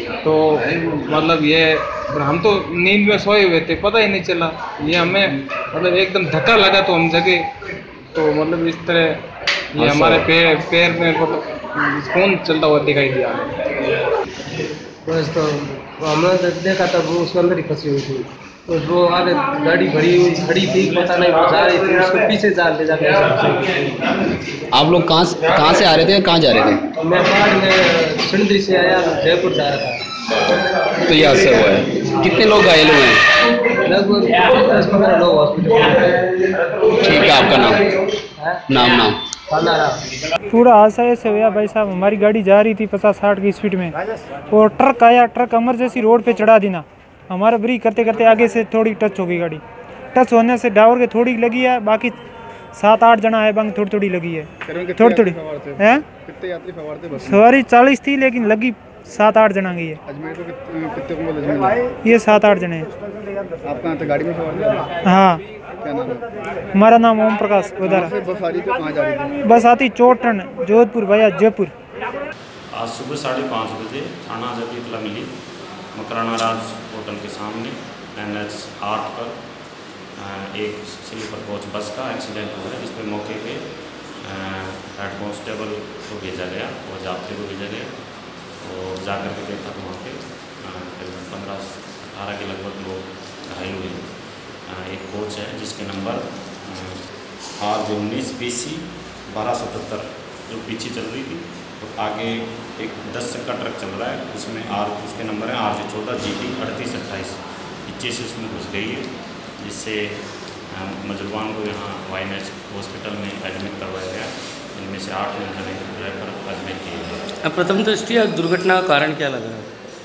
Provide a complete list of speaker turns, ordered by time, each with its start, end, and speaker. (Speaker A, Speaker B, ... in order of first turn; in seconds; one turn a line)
Speaker A: 0.2-7.5
Speaker A: 8.1-9.2
Speaker A: 9.7-13.8
Speaker B: 9.8-10.2
Speaker C: 15.1-24.1
Speaker D: 24.7-26.8
Speaker C: 27.0-30.0
Speaker D: 31.1-33.2
Speaker C: 33.8-36.3
Speaker D: 37.1-37.8
Speaker C: 38.4-39.0
Speaker D: 38.7-39.1
Speaker C: 39.5-40.0
Speaker E: 40.5-49.6
Speaker E: 50.1-52.2
Speaker E: 52.7-56.0
Speaker B: 54.7-57.4
Speaker E: 57.2-60.0
Speaker B: 60.1-61.9
Speaker E: 62.0-62.9
Speaker B: 63.6-64.9
Speaker E: 65.0-65.4
Speaker B: 65.8-66.3
Speaker E: 66.8-68.1
Speaker B: 67.8-69.4
Speaker E: 69.4-71.7
Speaker F: 72.7-75.3
Speaker F: 75.9-79.4
Speaker F: 80.2-83.7
Speaker F: 84.2-87.9
Speaker F: 88.6-94.1
Speaker F: 94.7-97.0
Speaker F: 97.6-109.1
Speaker F: 109.6-117.3
Speaker G: 117.4-119.7